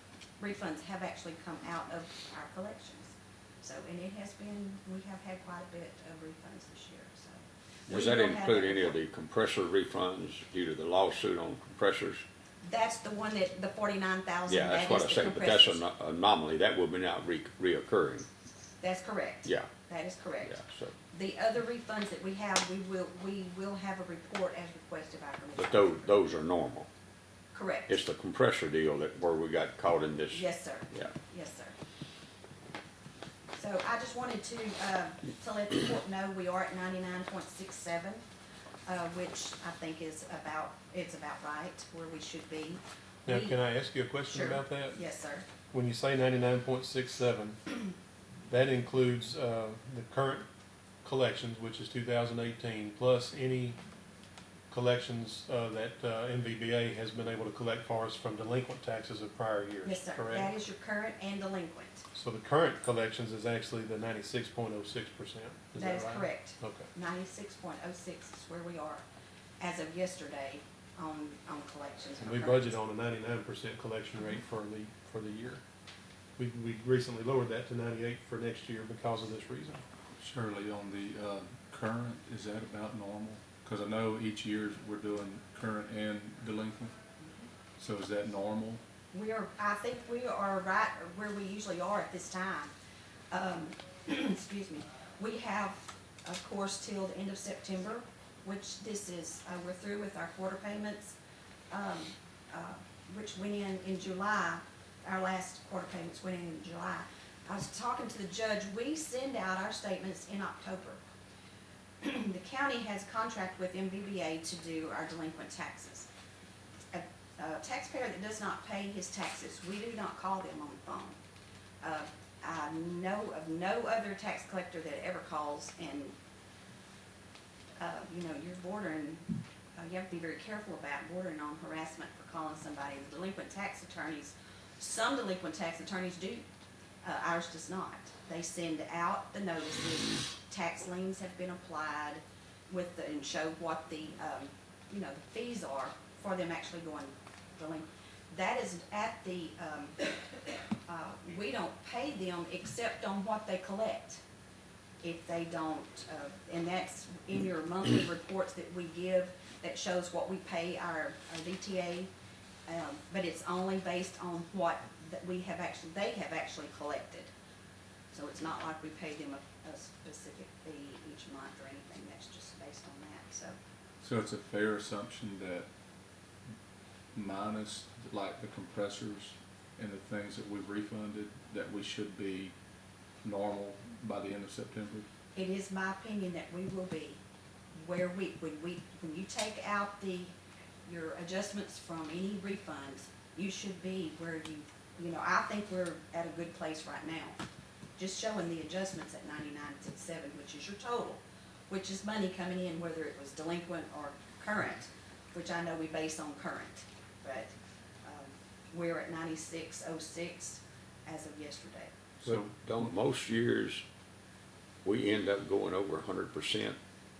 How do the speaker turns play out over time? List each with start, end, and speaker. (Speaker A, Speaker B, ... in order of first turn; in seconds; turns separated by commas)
Speaker A: 0.4-9.0, Speaker B: 7.9-12.2, Speaker A: 12.6-15.8, Speaker B: 14.5-18.3, Speaker A: 18.8-20.6, Speaker B: 19.4-19.7, Speaker B: 20.4-20.9, Speaker A: 21.1-26.2, Speaker B: 25.5-26.9, Speaker A: 27.5-27.9, Speaker B: 27.9-31.1, Speaker A: 30.3-31.8, Speaker A: 33.5-38.2, Speaker A: 38.9-43.6, Speaker C: 43.2-45.0, Speaker A: 44.3-45.5, Speaker C: 45.7-47.6, Speaker C: 48.5-50.5, Speaker C: 51.0-53.8, Speaker C: 54.7-60.5, Speaker A: 59.8-62.0, Speaker C: 62.1-66.9, Speaker A: 65.8-69.0, Speaker A: 69.6-72.8, Speaker C: 72.2-75.6, Speaker C: 76.4-79.8, Speaker D: 80.2-86.9, Speaker D: 87.8-88.8, Speaker A: 89.1-92.7, Speaker A: 93.3-101.2, Speaker A: 101.7-111.0, Speaker A: 112.0-116.1, Speaker A: 116.9-121.2, Speaker A: 121.8-126.1, Speaker A: 127.8-136.4, Speaker A: 137.0-149.9, Speaker A: 150.8-154.2, Speaker A: 155.0-162.1, Speaker A: 162.7-167.3, Speaker A: 168.1-173.6, Speaker D: 174.0-175.7, Speaker D: 177.1-182.5, Speaker D: 183.2-185.1, Speaker A: 185.3-187.2, Speaker A: 187.7-190.3, Speaker A: 190.8-197.4, Speaker A: 198.0-211.9, Speaker D: 212.2-212.5, Speaker B: 212.2-213.8, Speaker B: 214.8-216.8